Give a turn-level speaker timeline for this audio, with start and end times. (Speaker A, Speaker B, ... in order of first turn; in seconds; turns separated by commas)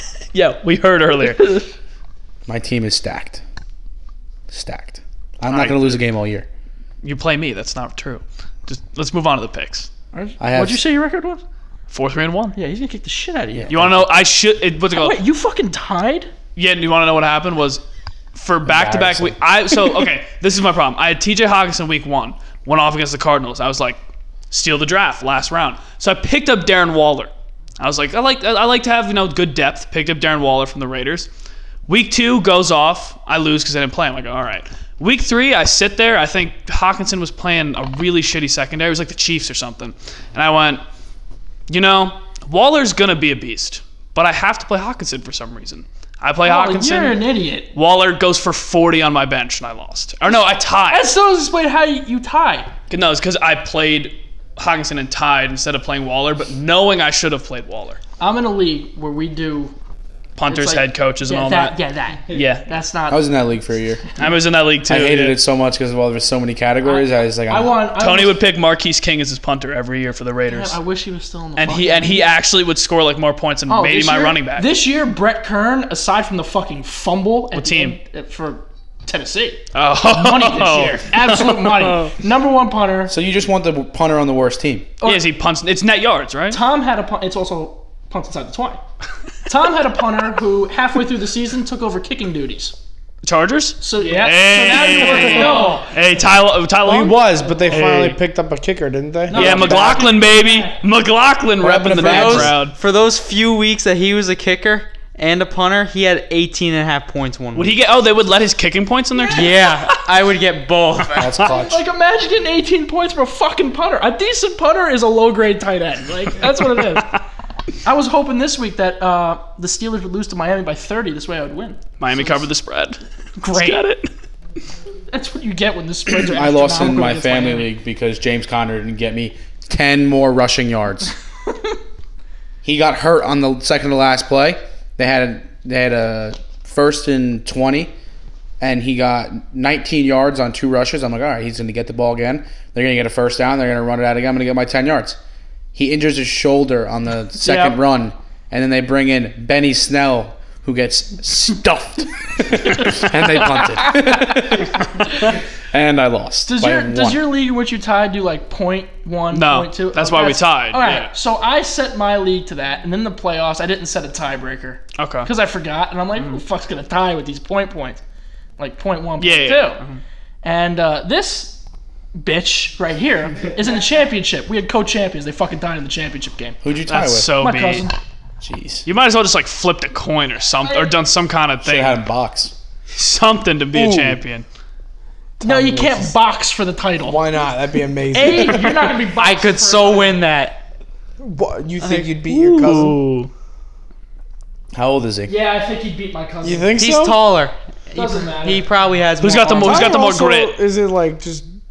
Speaker A: 0.3-1.6, Speaker B: 1.3-1.7, Speaker C: 2.5-3.4, Speaker C: 4.5-6.5, Speaker A: 5.5-6.0, Speaker A: 7.0-9.9, Speaker B: 10.1-11.4, Speaker C: 10.4-10.8, Speaker A: 11.9-12.6, Speaker B: 12.6-13.9, Speaker C: 13.6-14.1, Speaker A: 13.7-15.2, Speaker B: 14.9-16.3, Speaker A: 16.6-17.8, Speaker A: 18.3-24.0, Speaker C: 18.6-19.4, Speaker A: 24.5-31.3, Speaker A: 31.9-40.8, Speaker A: 41.7-47.2, Speaker B: 46.4-47.7, Speaker A: 47.7-51.1, Speaker B: 50.9-52.7, Speaker A: 52.9-58.0, Speaker B: 58.2-59.7, Speaker A: 60.4-61.8, Speaker B: 60.5-63.3, Speaker A: 62.3-62.7, Speaker C: 63.1-64.1, Speaker A: 64.2-65.4, Speaker C: 64.9-67.8, Speaker B: 66.8-68.4, Speaker A: 68.0-70.8, Speaker B: 70.5-72.3, Speaker A: 71.6-74.7, Speaker B: 73.7-83.1, Speaker A: 77.5-78.0, Speaker A: 79.7-82.1, Speaker C: 83.1-84.9, Speaker B: 85.0-85.3, Speaker A: 85.0-86.6, Speaker B: 86.5-88.8, Speaker B: 89.5-92.7, Speaker A: 93.2-98.2, Speaker B: 93.8-95.9, Speaker D: 95.4-95.7, Speaker E: 96.8-100.0, Speaker B: 97.5-97.9, Speaker B: 99.3-100.8, Speaker A: 99.3-102.8, Speaker C: 101.6-102.6, Speaker D: 102.0-107.8, Speaker A: 107.5-109.9, Speaker B: 109.2-109.5, Speaker D: 109.3-111.3, Speaker C: 111.2-111.8, Speaker B: 111.4-117.2, Speaker A: 116.8-117.1, Speaker B: 117.8-121.8, Speaker A: 122.0-124.1, Speaker B: 123.4-123.8, Speaker B: 125.1-127.7, Speaker C: 126.2-131.1, Speaker C: 132.6-137.9, Speaker C: 138.6-145.2, Speaker C: 145.7-154.8, Speaker B: 147.4-147.8, Speaker A: 152.9-153.7, Speaker C: 155.7-157.2, Speaker B: 156.4-168.0, Speaker A: 159.3-161.1, Speaker A: 165.0-165.3, Speaker B: 168.6-169.8, Speaker A: 169.2-170.0, Speaker B: 170.4-171.6, Speaker B: 172.2-176.6, Speaker C: 176.6-177.3, Speaker A: 176.9-177.8, Speaker B: 177.4-177.9, Speaker C: 178.4-178.8, Speaker A: 178.8-182.0, Speaker C: 181.6-182.5, Speaker A: 182.9-184.4, Speaker B: 185.4-187.2, Speaker E: 185.4-186.0, Speaker E: 187.0-188.9, Speaker B: 188.1-190.2, Speaker D: 189.0-190.6, Speaker E: 191.2-193.1, Speaker D: 191.8-192.1, Speaker A: 192.5-192.9, Speaker B: 192.6-193.3, Speaker C: 194.7-195.3, Speaker B: 195.3-196.7, Speaker E: 196.4-197.2, Speaker D: 196.8-199.9, Speaker B: 197.9-198.7, Speaker A: 199.2-200.6, Speaker E: 199.6-201.4